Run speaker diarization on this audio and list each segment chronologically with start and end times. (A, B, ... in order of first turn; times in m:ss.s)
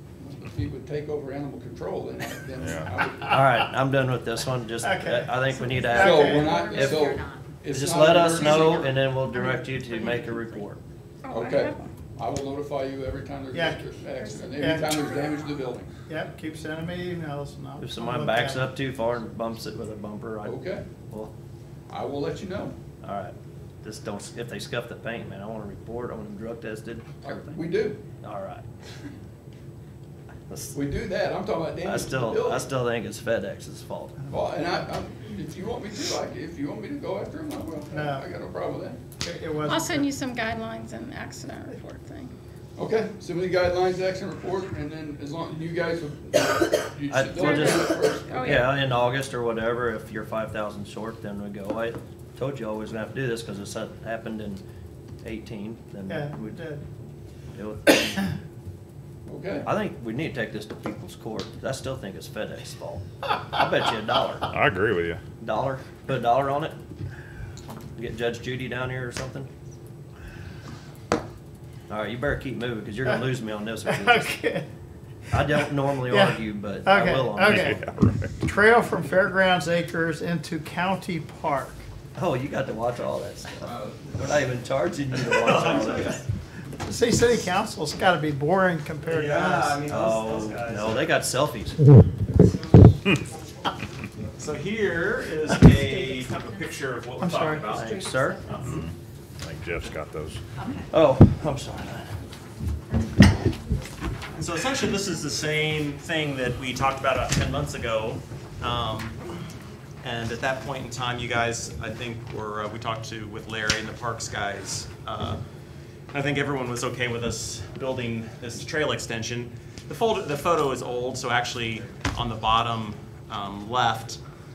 0:00.2-0:03.4 A
0:02.6-0:03.0 B
0:03.3-0:07.1 C
0:04.8-0:06.6 D
0:05.6-0:07.4 E
0:06.0-0:09.0 A
0:07.7-0:10.8 C
0:08.1-0:10.7 E
0:11.2-0:11.9 F
0:11.3-0:15.9 A
0:13.5-0:13.9 D
0:14.5-0:14.9 D
0:16.1-0:18.7 D
0:17.8-0:21.3 C
0:20.4-0:20.8 A
0:21.9-0:22.8 A
0:23.0-0:27.6 C
0:27.2-0:28.0 A
0:28.2-0:28.6 C
0:30.5-0:30.8 C
0:30.7-0:32.7 A
0:31.8-0:34.2 C
0:34.2-0:34.8 D
0:34.3-0:39.0 A
0:37.9-0:38.2 D
0:39.2-0:40.1 D
0:39.7-0:42.3 F
0:42.8-0:48.7 A
0:47.1-0:54.6 C
0:47.4-0:48.7 F
0:55.2-0:56.6 C
0:56.1-0:56.8 D
0:57.5-0:58.2 C
0:59.3-0:59.7 A
0:59.6-1:04.5 C
1:04.5-1:05.2 B
1:05.4-1:06.8 C
1:08.0-1:09.5 C
1:11.9-1:14.4 C
1:13.9-1:14.7 D
1:15.3-1:17.8 C
1:15.4-1:21.8 D
1:17.5-1:18.3 B
1:22.2-1:26.2 C
1:23.6-1:24.3 A
1:25.3-1:26.2 E
1:26.8-1:29.8 D
1:29.1-1:31.2 E
1:29.8-1:31.8 C
1:32.5-1:32.9 E
1:34.4-1:38.8 E
1:37.2-1:37.8 D
1:37.7-1:38.5 C
1:38.5-1:40.4 B
1:40.9-1:42.2 C
1:44.3-1:49.2 E
1:50.0-1:55.4 E
1:56.1-2:04.2 E